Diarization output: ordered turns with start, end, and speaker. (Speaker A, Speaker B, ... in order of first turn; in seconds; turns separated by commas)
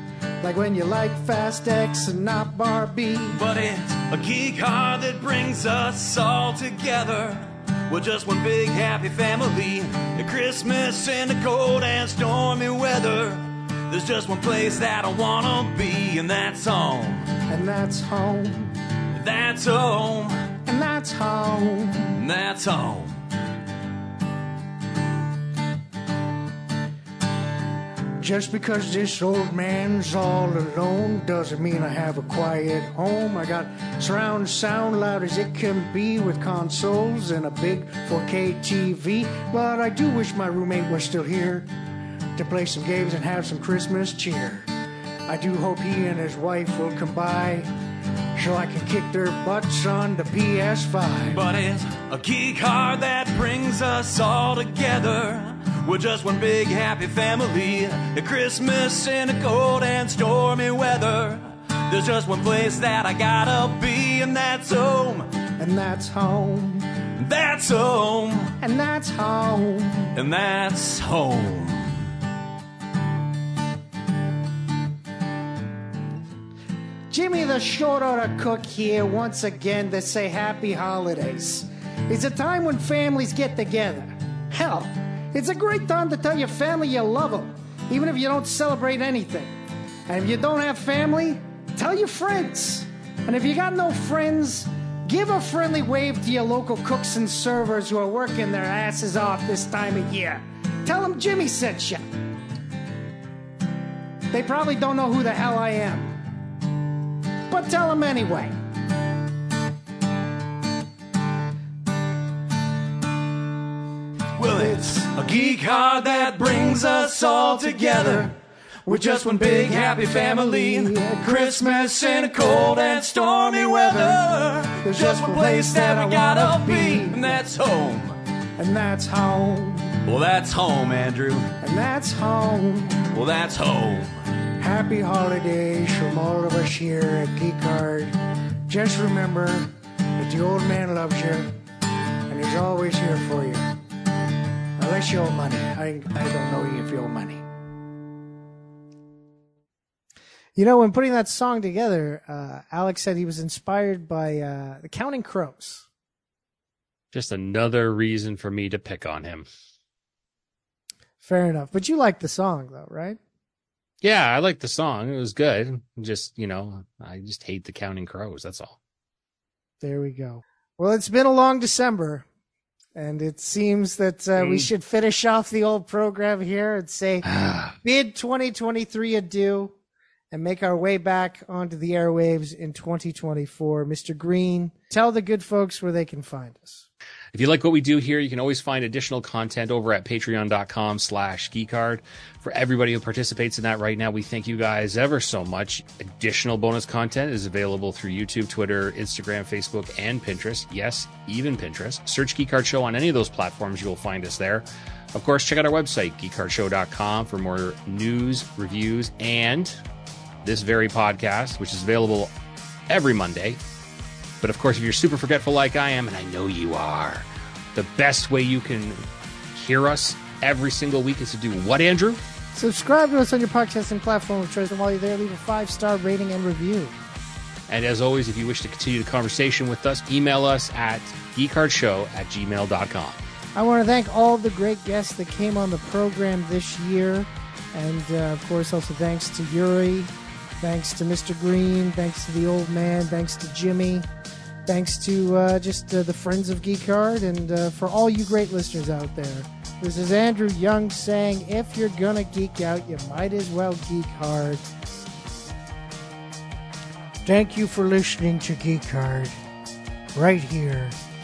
Speaker A: 0.4-3.4, Speaker B: 3.4-17.3, Speaker A: 17.5-18.7, Speaker B: 19.1-20.5, Speaker A: 20.6-22.2, Speaker B: 22.1-23.1, Speaker A: 28.2-41.7, Speaker A: 42.4-44.7, Speaker A: 45.3-47.7, Speaker A: 48.4-51.4, Speaker B: 51.3-65.3, Speaker A: 65.6-66.9, Speaker B: 67.2-68.6, Speaker A: 68.6-70.2, Speaker B: 70.1-72.1, Speaker A: 77.1-89.5, Speaker A: 90.1-102.0, Speaker A: 104.3-106.2, Speaker A: 107.5-108.6, Speaker B: 114.4-118.4, Speaker A: 114.5-115.1, Speaker A: 116.5-118.3, Speaker A: 118.9-127.4, Speaker B: 118.9-128.2, Speaker A: 128.6-130.0, Speaker B: 130.0-131.6, Speaker A: 131.6-133.1, Speaker B: 133.1-134.2, Speaker A: 134.6-141.6, Speaker A: 142.3-143.7, Speaker A: 144.8-147.4, Speaker A: 150.6-155.9, Speaker C: 157.1-159.5, Speaker A: 161.2-163.2, Speaker C: 164.0-168.8, Speaker A: 169.8-172.3, Speaker A: 172.9-177.2, Speaker C: 174.4-174.7, Speaker C: 177.3-177.8, Speaker A: 177.8-179.7, Speaker A: 180.3-186.9, Speaker C: 187.3-209.8, Speaker C: 210.4-212.3, Speaker C: 212.9-213.6, Speaker C: 214.4-222.2, Speaker A: 222.6-227.0, Speaker C: 227.7-233.2, Speaker A: 233.6-244.1, Speaker A: 244.7-254.7, Speaker A: 257.2-259.4, Speaker A: 260.1-261.0